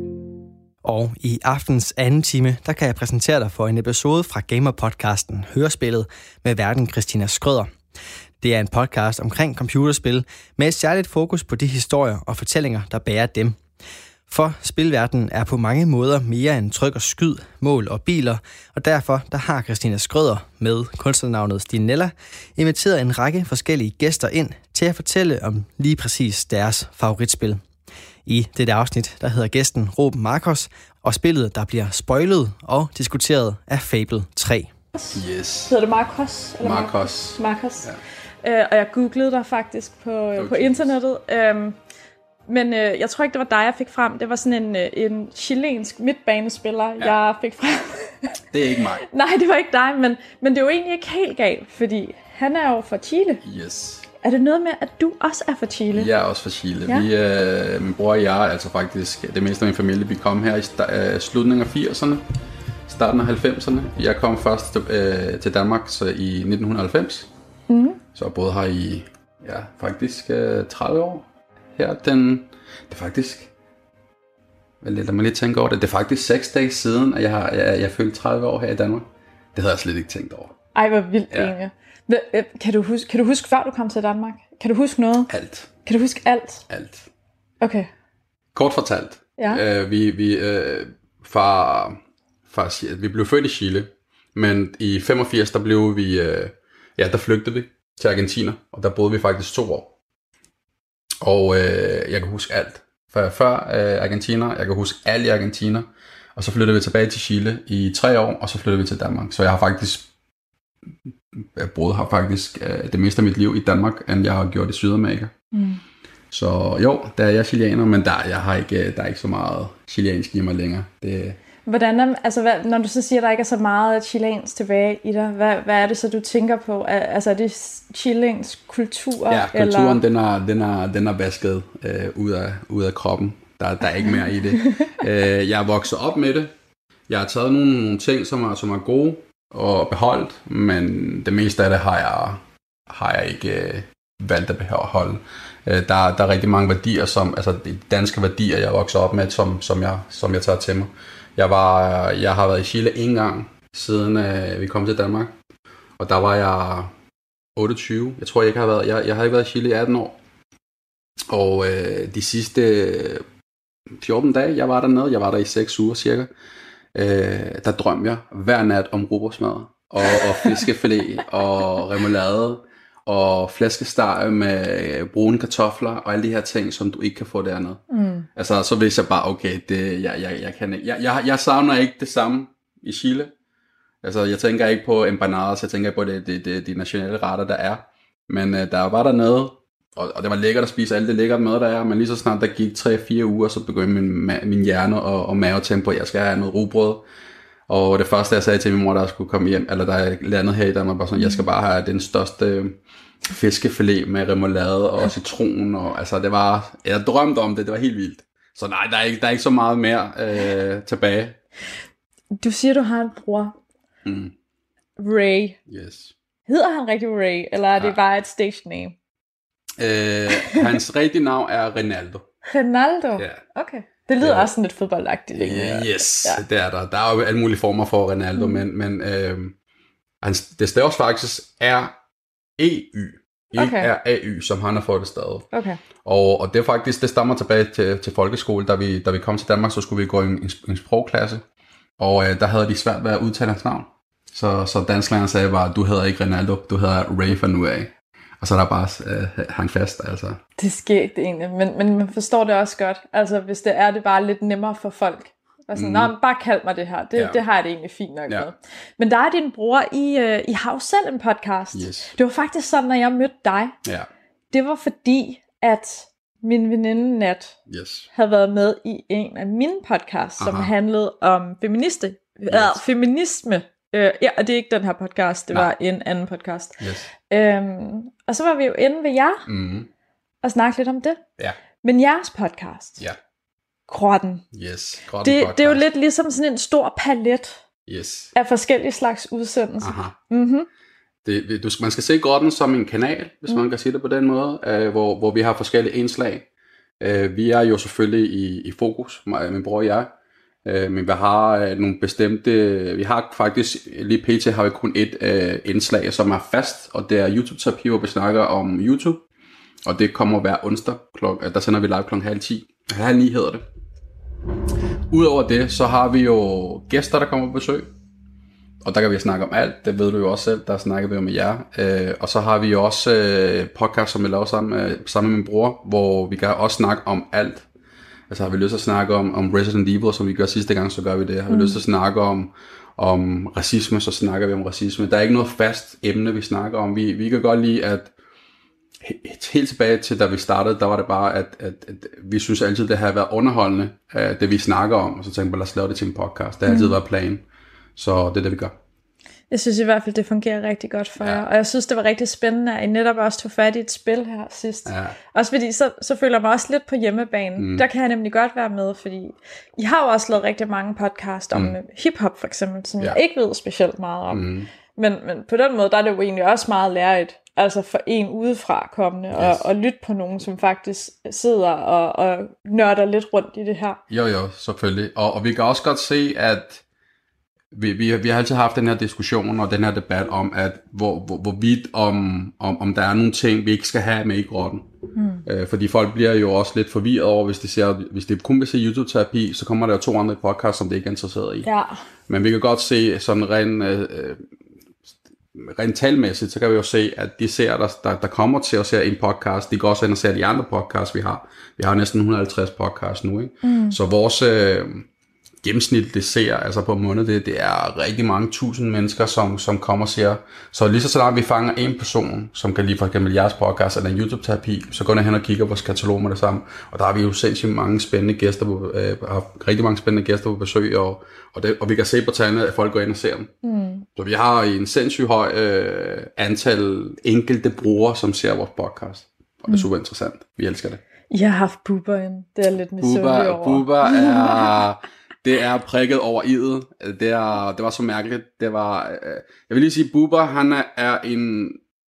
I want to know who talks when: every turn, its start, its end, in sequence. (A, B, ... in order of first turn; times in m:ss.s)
0:00.8-0:07.7 A
0:08.4-0:13.6 A
0:14.3-0:27.6 A
0:28.2-0:34.7 A
0:34.9-0:37.9 B
0:35.1-0:35.7 C
0:36.6-0:38.0 C
0:38.4-0:41.8 B
0:40.4-0:40.9 C
0:42.5-0:48.3 B
0:48.5-0:49.0 C
0:49.0-0:53.4 B
0:53.4-0:54.1 C
0:54.2-0:56.1 B
0:55.9-1:02.2 C
1:02.9-1:07.3 C
1:07.7-1:08.0 B
1:08.1-1:13.5 C
1:14.8-1:20.5 C
1:20.7-1:25.3 B
1:25.3-1:25.7 C
1:25.8-1:26.6 B
1:26.7-1:27.1 C
1:27.6-1:27.9 B
1:28.5-1:39.9 C
1:41.2-1:50.1 C
1:51.3-1:55.3 C
1:55.5-1:55.8 B
1:56.3-2:01.4 C
2:01.6-2:10.0 B
2:09.3-2:16.5 C
2:17.1-2:35.4 C
2:36.0-2:36.9 C
2:37.6-2:40.2 C
2:41.3-2:43.2 C
2:44.0-2:46.3 C
2:46.9-2:57.8 C
2:57.9-2:58.3 B
2:58.4-3:03.3 C
3:04.0-3:17.0 C
3:17.7-3:22.8 C
3:21.2-3:21.4 B
3:23.3-3:31.4 C
3:32.3-3:33.5 B
3:34.0-3:34.3 C
3:35.0-3:35.6 B
3:35.7-3:36.1 C
3:36.5-3:39.0 B
3:39.8-3:42.2 C
3:40.3-3:40.7 B
3:42.4-3:46.4 B
3:44.2-3:44.5 C
3:45.4-3:49.6 C
3:48.4-3:48.6 B
3:50.2-3:51.9 C
3:52.6-3:55.5 C
3:53.5-3:53.9 B
3:55.5-3:55.8 B
3:56.0-4:01.4 C
4:02.0-4:10.4 C
4:10.6-4:23.8 B
4:15.7-4:16.1 C
4:17.2-4:17.4 C
4:21.7-4:22.1 C
4:23.8-4:24.1 C
4:24.5-4:27.6 B
4:27.7-4:28.1 C
4:28.1-4:39.4 B
4:30.4-4:30.7 C
4:32.5-4:32.8 C
4:36.8-4:37.1 C
4:39.5-4:39.9 C
4:40.4-4:41.2 B
4:41.8-4:43.0 B
4:43.9-4:44.4 B
4:44.5-4:45.8 C
4:45.2-4:47.6 B
4:47.9-4:48.3 C
4:48.3-4:50.7 B
4:49.8-4:50.1 C
4:51.2-4:56.4 C
4:57.0-5:00.1 C
5:00.6-5:09.2 C
5:09.8-5:13.6 C
5:15.1-5:17.9 C
5:18.8-5:27.6 C
5:28.3-5:38.1 C
5:31.5-5:31.8 B
5:39.0-5:47.4 C
5:46.7-5:47.0 B
5:48.0-5:48.8 C
5:49.5-6:14.0 B
5:54.9-5:55.2 C
5:57.6-5:57.9 C
6:04.3-6:04.7 C
6:09.3-6:09.6 C
6:14.1-6:16.8 C
6:17.7-6:24.9 C
6:25.1-6:25.4 B
6:25.4-6:31.7 C
6:31.6-6:32.0 B
6:32.3-6:34.4 C
6:35.5-6:45.1 C
6:43.6-6:44.0 B
6:45.6-7:03.5 C
7:03.6-7:04.1 B
7:04.2-7:11.0 C
7:11.3-7:14.7 B
7:13.0-7:21.8 C